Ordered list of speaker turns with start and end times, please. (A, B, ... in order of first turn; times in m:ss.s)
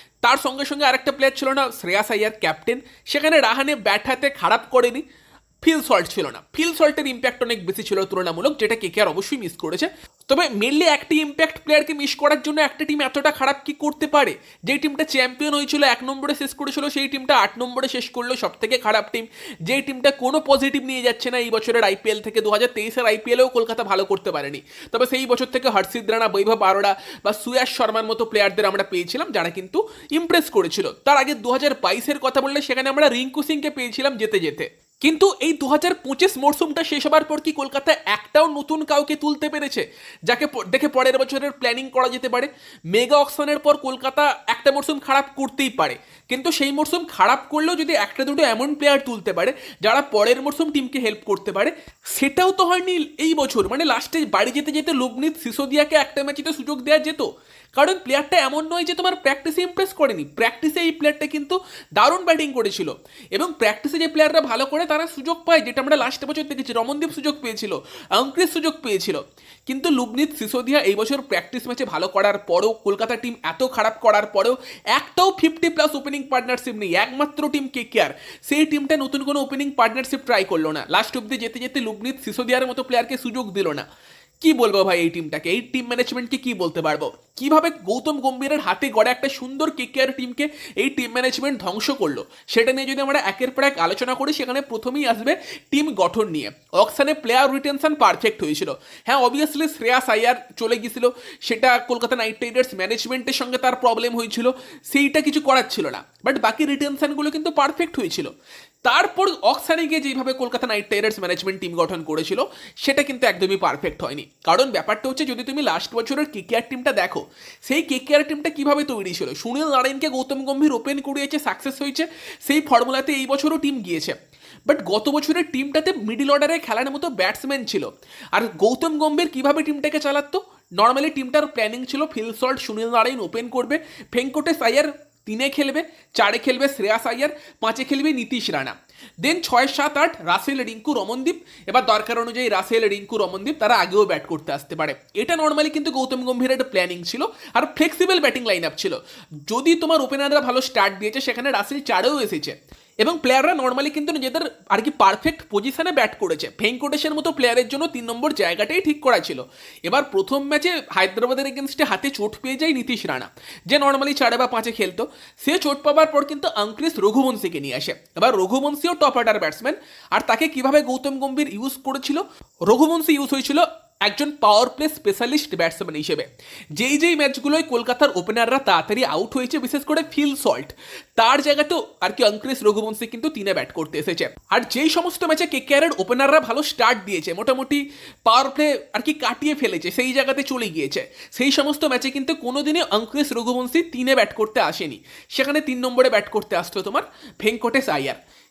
0:00.2-0:05.0 A
0:05.6-1:23.8 A
1:24.4-1:48.3 A
1:48.8-3:18.2 A